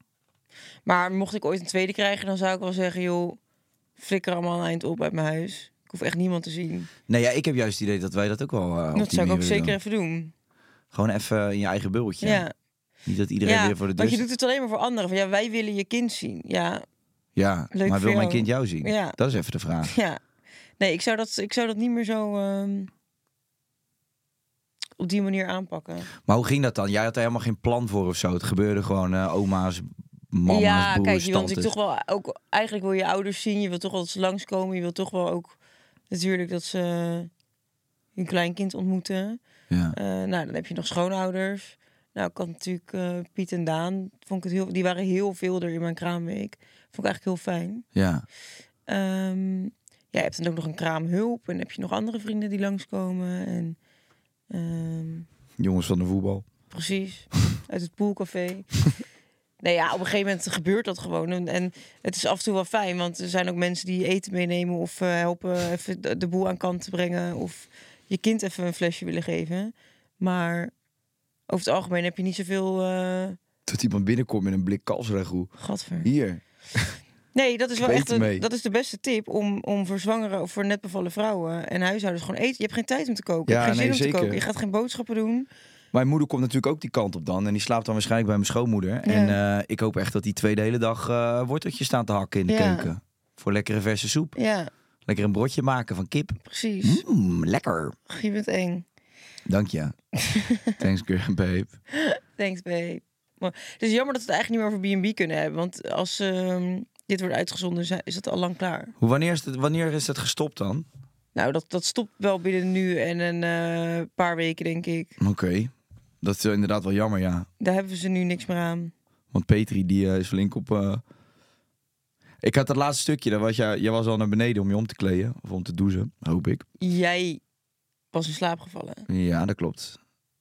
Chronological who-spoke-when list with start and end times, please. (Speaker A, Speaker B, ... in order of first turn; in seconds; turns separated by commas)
Speaker A: 0.8-3.4, Speaker A: 4.0-6.9, Speaker B: 7.1-9.8, Speaker A: 8.9-10.3, Speaker B: 10.9-12.4, Speaker A: 12.2-12.5, Speaker B: 13.0-14.2, Speaker A: 13.4-16.8, Speaker B: 17.4-19.9, Speaker A: 17.7-19.1, Speaker A: 19.9-20.2, Speaker A: 20.8-22.9, Speaker A: 25.0-26.1, Speaker B: 26.2-31.7, Speaker A: 30.5-35.6, Speaker A: 36.1-37.3, Speaker A: 38.1-39.4, Speaker B: 39.7-40.0, Speaker A: 39.9-47.8, Speaker B: 47.9-48.2, Speaker A: 48.9-53.8, Speaker A: 54.5-55.3, Speaker B: 55.6-56.4, Speaker A: 56.7-58.8, Speaker A: 59.6-70.7, Speaker A: 71.5-73.4, Speaker B: 73.7-75.5, Speaker A: 75.6-76.1, Speaker B: 76.0-77.0, Speaker A: 77.3-85.5, Speaker B: 77.8-78.5, Speaker B: 83.5-84.4, Speaker B: 85.9-94.3, Speaker A: 89.0-89.4, Speaker A: 92.5-92.9, Speaker A: 94.4-94.7, Speaker B: 95.0-98.0, Speaker A: 96.5-97.0, Speaker A: 98.1-98.8, Speaker B: 99.5-99.9, Speaker A: 100.2-100.8, Speaker B: 100.8-101.7, Speaker A: 101.9-108.9, Speaker B: 109.0-110.9, Speaker A: 111.3-115.2, Speaker B: 115.2-117.5, Speaker A: 117.6-118.9, Speaker B: 119.3-121.0, Speaker B: 122.4-126.6, Speaker A: 126.8-127.4, Speaker A: 128.1-129.1, Speaker B: 129.1-130.0